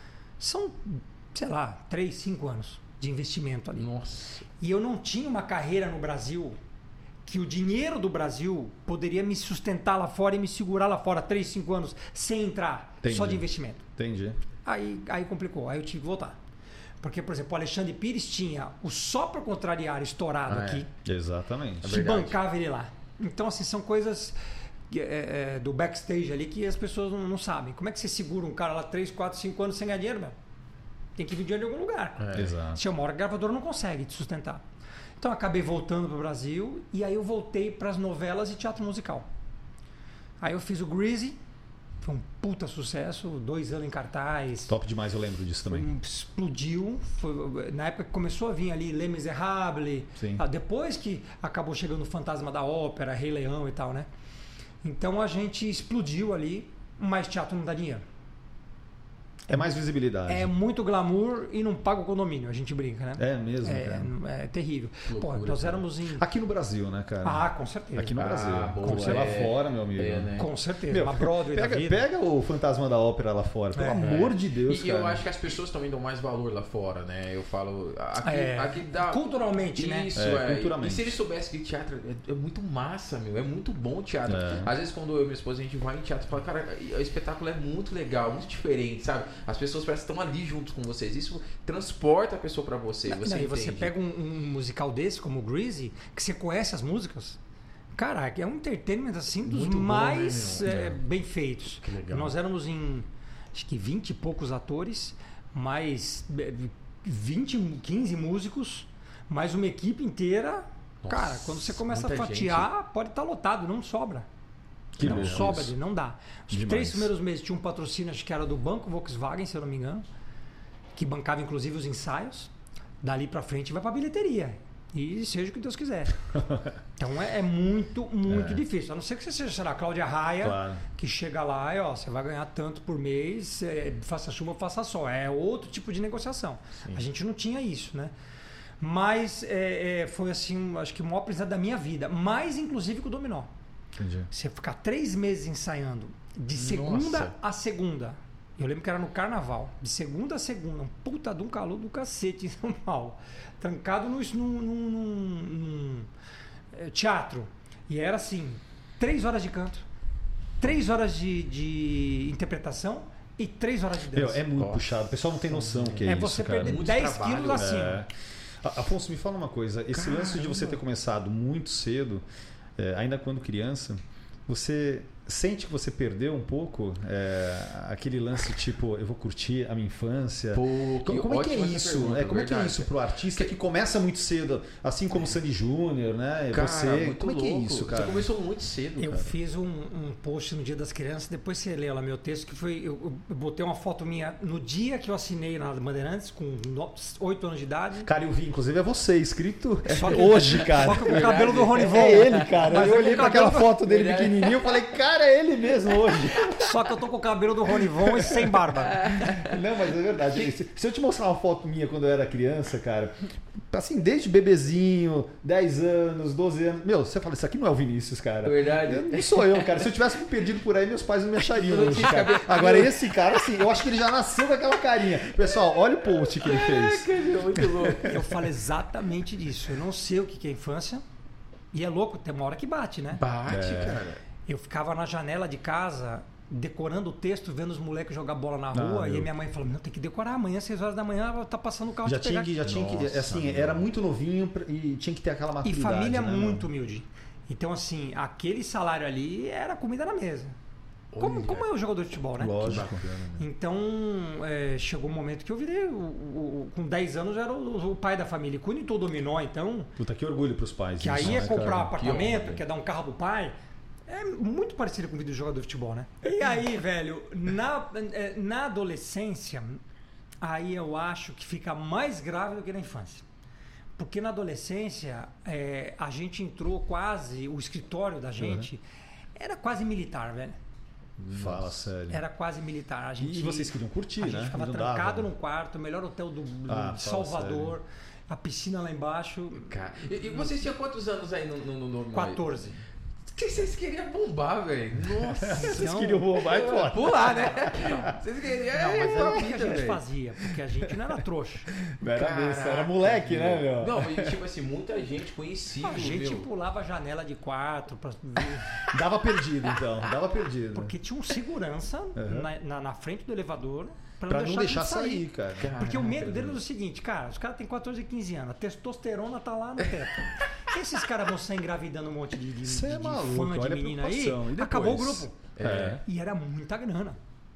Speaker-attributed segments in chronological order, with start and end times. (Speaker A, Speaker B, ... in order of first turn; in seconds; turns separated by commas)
Speaker A: 0.4-3.9, Speaker B: 3.8-4.4, Speaker A: 4.6-6.6, Speaker A: 7.2-13.8, Speaker C: 13.0-13.4, Speaker C: 13.9-14.4, Speaker A: 14.6-16.4, Speaker A: 17.0-20.9, Speaker B: 20.5-20.8, Speaker C: 21.0-22.0, Speaker B: 21.8-22.4, Speaker A: 21.9-24.4, Speaker A: 24.9-30.3, Speaker A: 31.1-34.6, Speaker B: 32.2-32.5, Speaker C: 32.3-32.8, Speaker A: 35.2-39.3, Speaker A: 40.4-41.4, Speaker A: 42.0-44.7, Speaker C: 44.7-45.9, Speaker A: 45.7-54.1, Speaker C: 50.2-50.4, Speaker A: 54.8-58.0, Speaker A: 59.5-59.7, Speaker C: 59.5-60.5, Speaker A: 60.3-66.2, Speaker C: 63.2-64.1, Speaker B: 65.1-65.8, Speaker C: 66.2-70.3, Speaker A: 67.2-68.2, Speaker B: 68.2-70.5, Speaker A: 68.8-69.5, Speaker A: 70.4-72.0, Speaker C: 70.9-75.2, Speaker A: 73.7-74.1, Speaker B: 74.0-79.2, Speaker A: 78.2-80.1, Speaker B: 79.8-93.9, Speaker C: 80.2-81.2, Speaker C: 84.3-84.7, Speaker A: 93.1-97.4, Speaker A: 97.9-114.2, Speaker B: 99.4-101.0, Speaker B: 101.8-102.3, Speaker B: 111.0-112.7, Speaker C: 115.0-115.7, Speaker B: 115.0-115.7, Speaker A: 115.0-120.0, Speaker C: 116.5-117.1, Speaker A: 121.0-122.5, Speaker A: 123.0-126.2, Speaker C: 126.4-126.7, Speaker A: 127.0-138.1, Speaker C: 128.3-128.6, Speaker C: 130.4-130.8, Speaker A: 138.8-143.5, Speaker C: 144.0-144.3, Speaker A: 144.3-156.1, Speaker B: 146.5-147.3, Speaker A: 156.7-159.8, Speaker A: 160.6-164.4, Speaker C: 164.1-166.8, Speaker B: 164.6-167.8, Speaker A: 166.0-168.0, Speaker C: 167.5-168.1, Speaker C: 168.6-172.2, Speaker B: 169.9-170.8, Speaker C: 172.8-188.3, Speaker B: 180.5-183.5, Speaker B: 186.5-189.3, Speaker A: 189.0-198.1, Speaker C: 198.0-206.7, Speaker A: 199.9-203.8, Speaker B: 199.9-204.8, Speaker B: 206.1-206.5, Speaker A: 206.5-209.0, Speaker B: 208.9-209.6, Speaker C: 209.0-213.1, Speaker C: 213.7-228.2, Speaker B: 218.4-219.9, Speaker B: 221.5-223.6, Speaker B: 225.5-228.2, Speaker A: 228.0-231.0, Speaker A: 231.7-233.2, Speaker B: 233.2-234.2, Speaker C: 233.5-234.0, Speaker A: 234.5-242.6, Speaker C: 238.7-239.3, Speaker C: 242.0-246.7, Speaker B: 242.6-243.8, Speaker A: 245.6-250.6, Speaker B: 251.1-251.7, Speaker A: 251.2-252.8, Speaker C: 252.4-253.0, Speaker B: 252.6-253.5, Speaker A: 253.4-259.9, Speaker C: 260.0-261.9, Speaker A: 261.0-263.6, Speaker B: 261.1-262.6, Speaker A: 264.1-269.8, Speaker A: 270.4-273.2, Speaker A: 274.0-278.8, Speaker C: 278.4-278.7, Speaker A: 279.4-280.6, Speaker B: 281.2-281.8, Speaker C: 281.3-282.2, Speaker A: 282.1-289.8, Speaker C: 283.2-285.3, Speaker C: 286.7-287.8, Speaker B: 289.6-292.7, Speaker A: 292.1-292.8, Speaker B: 293.3-300.0, Speaker C: 295.3-298.2, Speaker A: 295.5-296.4, Speaker A: 297.1-298.0, Speaker A: 298.7-301.7, Speaker C: 301.8-304.4, Speaker B: 302.1-306.5, Speaker A: 305.8-308.9, Speaker C: 308.9-310.9, Speaker A: 310.7-327.2, Speaker C: 312.1-312.5, Speaker C: 314.3-315.8, Speaker B: 315.6-316.6, Speaker C: 322.6-326.0, Speaker B: 325.5-326.0